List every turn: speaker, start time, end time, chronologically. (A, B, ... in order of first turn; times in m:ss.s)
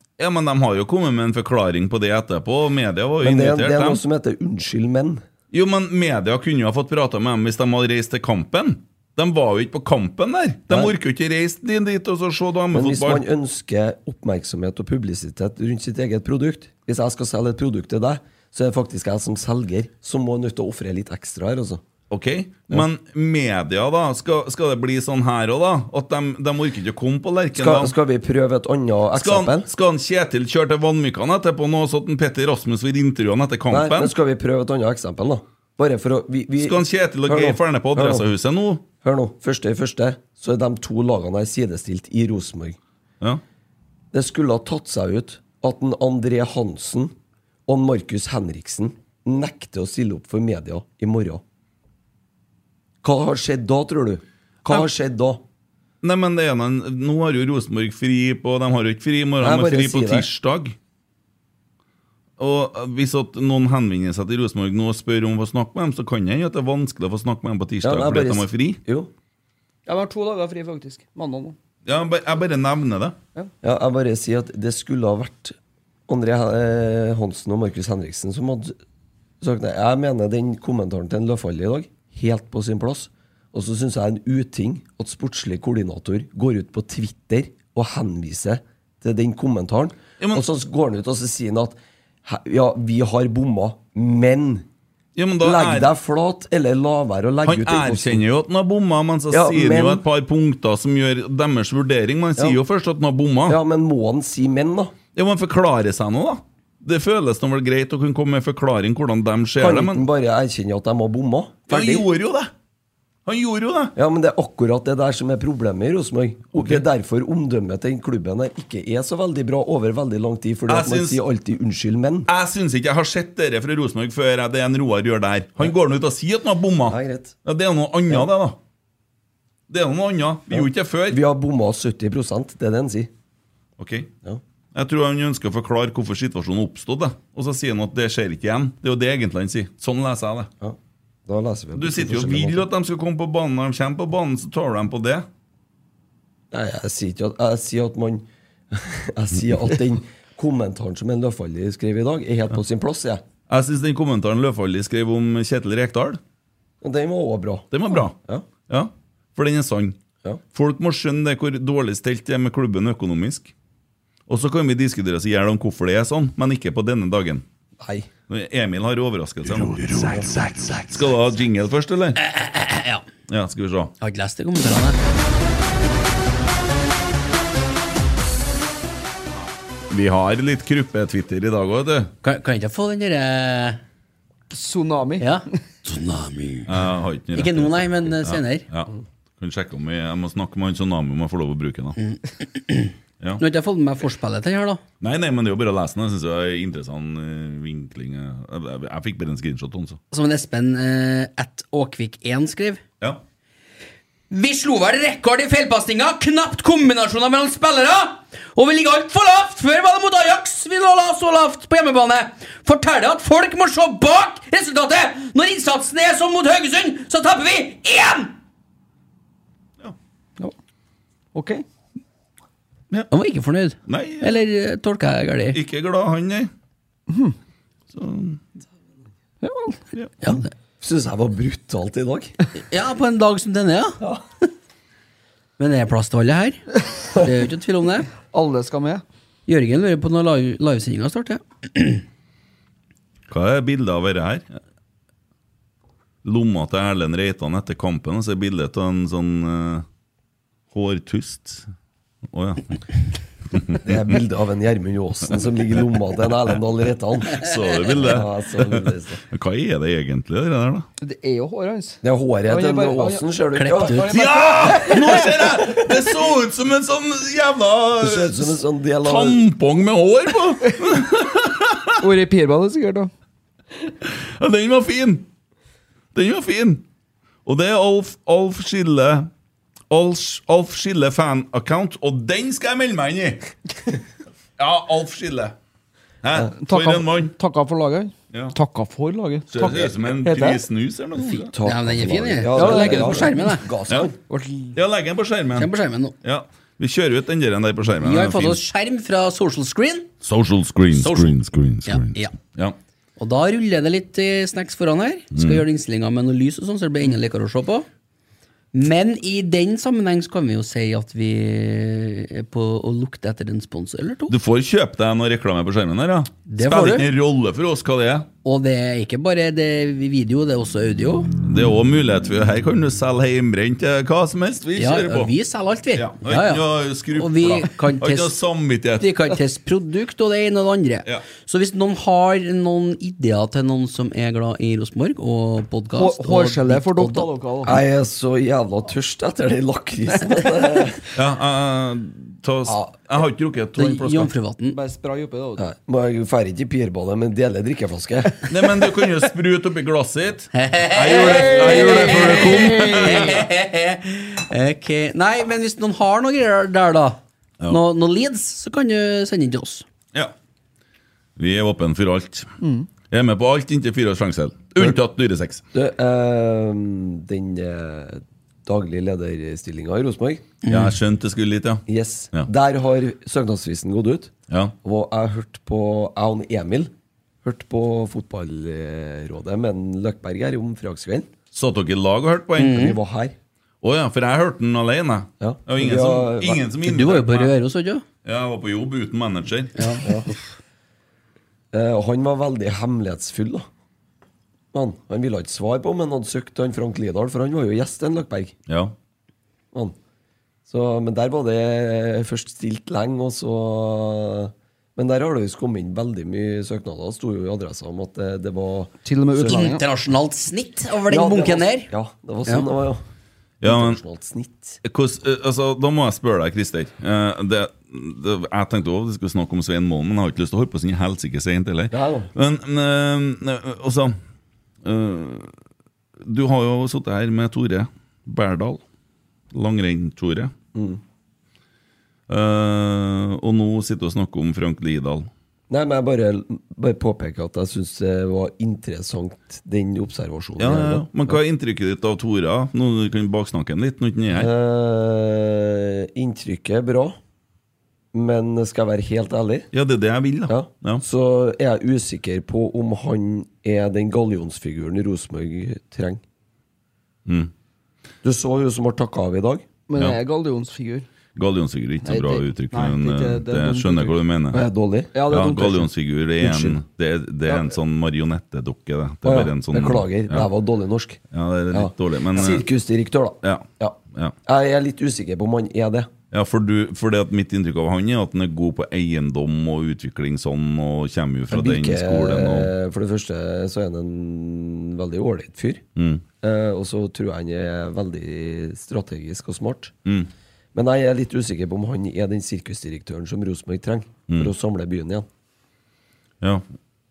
0:00.2-0:04.0 A
0:03.2-0:05.2 B
0:05.5-0:13.2 A
0:10.7-0:11.0 B
0:12.7-0:21.8 B
0:22.1-0:27.9 A
0:27.5-0:29.7 B
0:29.2-0:34.1 A
0:33.7-0:38.3 B
0:36.6-0:38.8 A
0:39.0-0:42.8 B
0:44.1-0:47.1 B
0:47.7-0:51.4 B
0:53.0-0:55.4 B
0:56.0-1:00.8 A
0:59.4-1:00.3 B
1:02.4-1:08.8 A
1:07.8-1:09.1 B
1:09.9-1:11.6 C
1:11.8-1:13.2 A
1:13.6-1:15.6 B
1:16.1-1:18.8 B
1:19.4-1:34.7 B
1:35.2-1:35.9 A
1:35.4-1:38.2 B
1:37.5-1:43.6 A
1:39.3-1:40.0 B
1:43.5-1:45.0 B
1:45.1-1:50.0 A
1:49.6-1:52.1 B
1:51.7-1:52.5 A
1:53.3-1:53.9 A
1:54.0-2:02.3 B
1:56.6-1:56.8 A
2:00.7-2:01.2 A
2:02.3-2:08.6 A
2:06.9-2:07.4 B
2:09.7-2:11.2 A
2:10.5-2:13.1 B
2:13.8-2:14.1 A
2:14.7-2:20.5 A
2:20.6-2:22.7 B
2:21.8-2:25.3 A
2:26.5-2:33.2 B
2:33.5-2:36.2 A
2:36.8-2:38.5 B
2:37.7-2:40.0 A
2:40.5-2:43.5 A
2:44.3-2:47.4 A
2:47.8-2:48.1 B
2:48.3-2:52.2 A
2:49.9-2:50.4 B
2:52.2-2:53.1 D
2:53.3-2:53.9 A
2:54.0-2:55.0 D
2:59.9-3:02.1 A
3:02.2-3:03.8 D
3:04.5-3:05.4 C
3:05.2-3:06.7 D
3:06.7-3:12.0 A
3:07.3-3:08.7 D
3:12.0-3:14.8 D
3:15.0-3:20.0 A
3:20.1-3:22.8 D
3:24.3-3:38.4 D
3:41.3-3:41.6 C
3:43.1-3:45.6 D
3:43.9-3:44.4 A
3:45.5-3:46.5 A
3:47.1-3:47.4 C
3:47.9-3:48.4 A
3:49.4-3:49.8 C
3:50.2-3:50.5 D
3:50.8-3:52.3 B
3:52.6-3:54.0 D
3:55.6-3:58.1 D
3:58.3-3:59.0 C
3:59.5-4:02.0 D
4:03.3-4:04.5 A
4:06.2-4:09.8 A
4:10.7-4:11.7 A
4:12.3-4:13.0 A
4:13.5-4:13.9 A
4:13.8-4:19.2 B
4:17.3-4:20.9 A
4:21.0-4:23.2 C
4:22.0-4:24.2 B
4:23.6-4:24.1 D
4:23.8-4:25.5 C
4:24.1-4:31.9 A
4:28.0-4:29.4 B
4:32.0-4:33.1 C
4:34.0-4:35.3 A
4:36.1-4:36.8 A
4:37.4-4:39.3 A
4:39.9-4:43.5 A
4:44.6-4:45.6 A
4:46.2-4:47.3 A
4:46.6-4:50.6 C
4:49.5-4:51.5 A
4:51.5-4:54.2 B
4:51.6-4:53.7 D
4:52.5-4:53.4 C
4:54.3-4:54.8 C
4:54.7-4:55.7 A
4:55.6-4:56.2 D
4:56.2-4:58.6 A
4:58.0-5:00.1 D
5:00.2-5:02.8 A
5:00.9-5:02.4 D
5:03.2-5:07.9 D
5:05.3-5:05.6 A
5:08.7-5:14.4 D
5:14.3-5:18.3 A
5:16.5-5:17.1 D
5:18.4-5:21.3 D
5:21.4-5:25.3 A
5:24.8-5:28.4 D
5:26.0-5:29.2 A
5:29.0-5:37.3 D
5:36.0-5:37.8 C
5:37.6-5:41.0 B
5:41.1-5:44.3 A
5:43.8-5:44.8 D
5:44.7-5:45.7 C
5:45.6-5:48.4 B
5:48.5-5:53.5 A
5:50.5-5:59.9 D
5:51.3-5:53.1 C
6:01.4-6:02.5 A
6:02.6-6:02.9 C
6:03.0-6:05.6 A
6:05.7-6:10.5 B
6:10.6-6:11.0 D
6:10.7-6:12.5 A
6:11.9-6:16.9 B
6:17.4-6:21.3 B
6:21.5-6:22.8 A
6:22.6-6:23.0 D
6:22.7-6:23.4 B
6:23.8-6:27.6 A
6:25.4-6:26.7 B
6:26.8-6:28.0 D
6:28.2-6:30.0 A
6:29.8-6:30.4 D
6:30.0-6:30.3 B
6:31.7-6:33.7 B
6:34.7-6:38.6 B
6:38.7-6:39.0 A
6:40.7-6:49.6 B
6:49.0-6:49.8 C
6:49.4-6:51.9 D
6:51.1-6:53.0 B
6:53.6-6:54.0 A
6:53.6-6:54.8 B
6:54.8-7:04.2 A
7:01.9-7:02.3 B
7:04.8-7:05.5 A
7:06.2-7:08.8 A
7:09.5-7:10.5 A
7:10.7-7:11.0 B
7:12.3-7:15.3 A
7:15.7-7:21.4 B
7:20.6-7:24.5 A
7:24.3-7:27.2 B
7:28.1-7:29.7 B
7:29.7-7:31.0 A
7:30.5-7:36.2 B
7:37.3-7:37.5 A
7:38.2-7:39.7 B
7:39.9-7:41.1 C
7:41.4-7:44.6 A
7:42.0-7:44.2 C
7:44.5-7:45.2 B
7:45.2-7:45.9 C
7:45.3-7:50.5 A
7:46.4-7:46.8 B
7:49.2-7:56.1 B
7:51.3-7:52.7 A
7:53.4-7:54.4 A
7:56.3-8:02.7 A
8:01.5-8:05.8 B
8:06.0-8:06.2 A
8:06.4-8:09.9 B
8:10.7-8:15.3 B